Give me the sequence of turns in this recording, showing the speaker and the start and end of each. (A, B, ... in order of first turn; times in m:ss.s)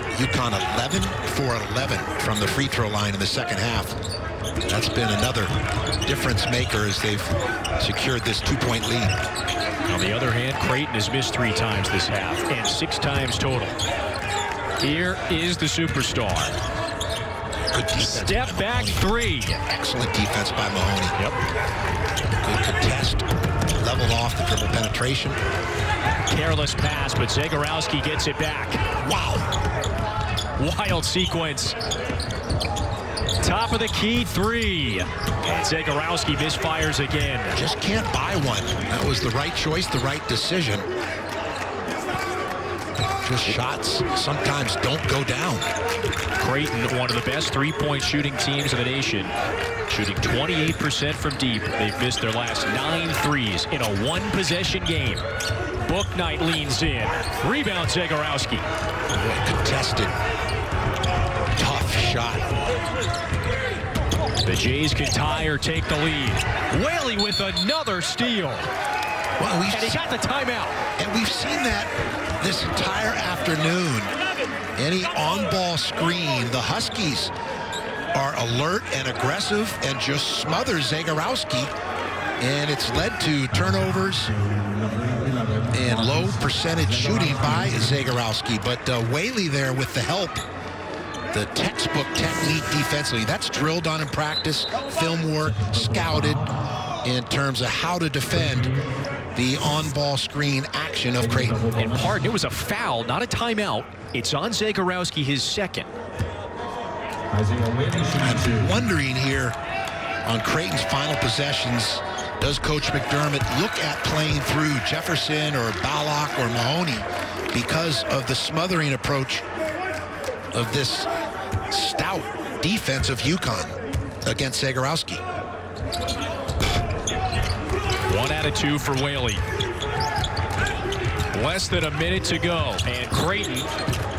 0:00.1-0:04.0 A
0:04.7-0:09.2 A
0:09.9-0:13.8 B
0:14.8-0:16.6 B
0:17.7-0:19.1 A
0:18.0-0:19.6 B
0:19.7-0:21.2 A
0:22.4-0:25.4 A
0:26.3-0:28.9 B
0:29.0-0:29.5 A
0:30.6-0:31.8 B
0:33.4-0:37.6 B
0:37.5-0:40.9 A
0:43.2-0:45.7 A
0:46.4-0:49.3 B
0:49.9-0:55.2 B
0:55.8-0:58.7 B
0:59.1-1:00.2 A
1:01.6-1:02.5 A
1:04.4-1:08.7 B
1:09.4-1:10.0 A
1:09.7-1:10.8 B
1:11.0-1:14.1 A
1:14.8-1:17.3 A
1:18.2-1:21.7 A
1:22.4-1:24.3 A
1:23.5-1:28.0 C
1:25.7-1:30.4 A
1:31.3-1:36.5 A
1:35.4-1:36.5 C
1:37.0-1:38.7 A
1:38.3-1:38.9 C
1:39.4-1:41.6 A
1:41.2-1:42.3 C
1:41.8-1:45.9 B
1:47.3-1:48.8 C
1:48.2-1:49.6 A
1:50.2-1:59.5 A
2:00.5-2:01.1 A
2:01.7-2:05.2 A
2:08.1-2:09.4 B
2:11.3-2:13.7 B